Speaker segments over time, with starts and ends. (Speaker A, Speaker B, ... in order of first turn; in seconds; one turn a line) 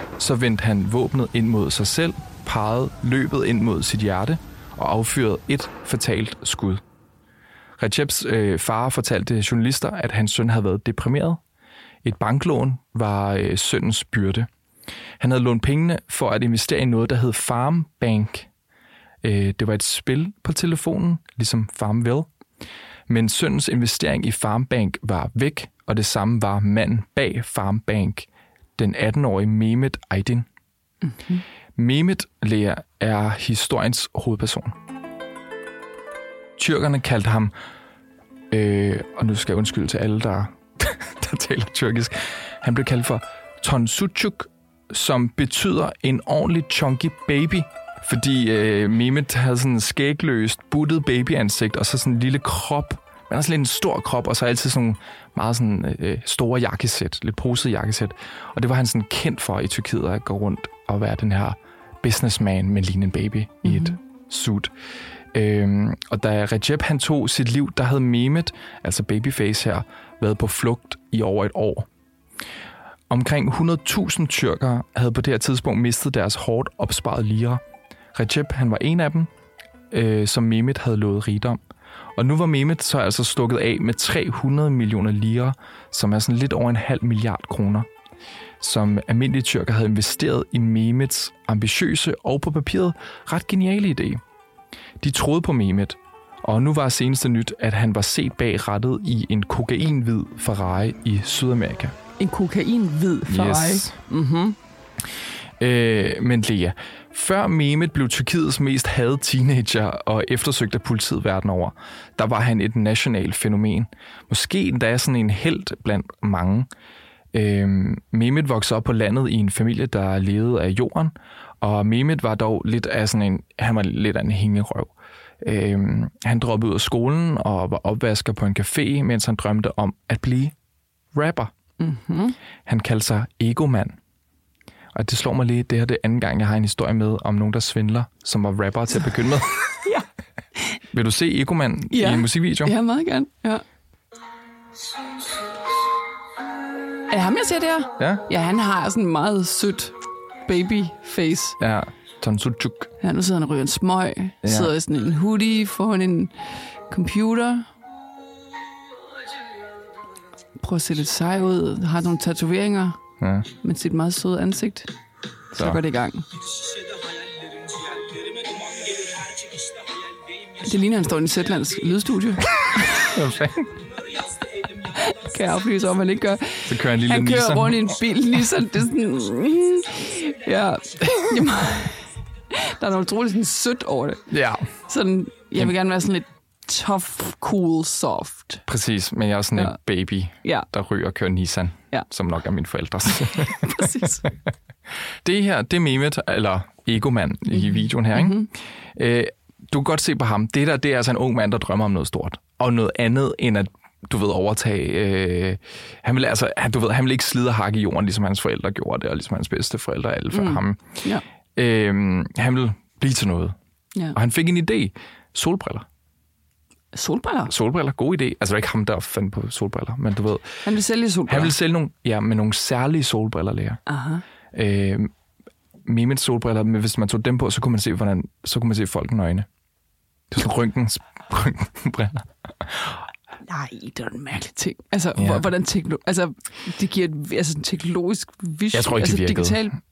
Speaker A: 0.2-6.8
Speaker A: 7.8-11.4
Speaker A: 12.0-14.5
Speaker A: 15.2-18.5
Speaker A: 19.2-22.3
Speaker A: 23.1-30.4
Speaker B: 31.0-31.4
Speaker A: 31.8-34.8
Speaker A: 36.6-37.5
Speaker A: 38.5-64.7
Speaker B: 63.6-64.0
Speaker A: 65.3-71.9
Speaker A: 73.1-77.6
Speaker A: 78.1-79.3
Speaker A: 79.9-81.6
Speaker A: 82.2-87.9
Speaker A: 88.6-94.2
Speaker A: 95.0-102.0
Speaker B: 102.2-104.6
Speaker A: 103.3-104.0
Speaker A: 105.6-116.7
Speaker A: 117.3-130.5
Speaker A: 131.1-131.5
Speaker B: 131.8-132.3
Speaker A: 132.7-134.0
Speaker A: 134.9-139.7
Speaker A: 140.9-142.7
Speaker B: 141.9-143.6
Speaker B: 147.1-151.6
Speaker A: 148.0-148.3
Speaker A: 151.6-152.9
Speaker B: 153.0-156.3
Speaker A: 154.4-154.7
Speaker B: 156.9-157.7
Speaker B: 160.6-163.0
Speaker A: 163.2-163.5
Speaker B: 163.6-164.9
Speaker A: 165.5-165.8
Speaker B: 165.5-166.3
Speaker B: 168.9-169.2
Speaker B: 170.5-173.2
Speaker A: 172.9-173.7
Speaker B: 174.6-184.3
Speaker A: 176.6-178.0
Speaker A: 184.3-184.7
Speaker B: 184.8-188.6
Speaker A: 188.7-194.3
Speaker B: 193.2-194.2
Speaker A: 195.2-211.0
Speaker B: 197.6-198.5
Speaker B: 210.3-211.2
Speaker A: 211.6-213.6
Speaker A: 214.1-215.8
Speaker B: 216.9-217.5
Speaker A: 217.5-220.6
Speaker B: 220.6-221.5
Speaker A: 221.3-223.8
Speaker B: 223.9-224.2
Speaker A: 224.5-225.1
Speaker A: 225.8-229.5
Speaker A: 230.3-233.0
Speaker B: 233.4-239.7
Speaker A: 235.1-235.4
Speaker A: 238.7-239.7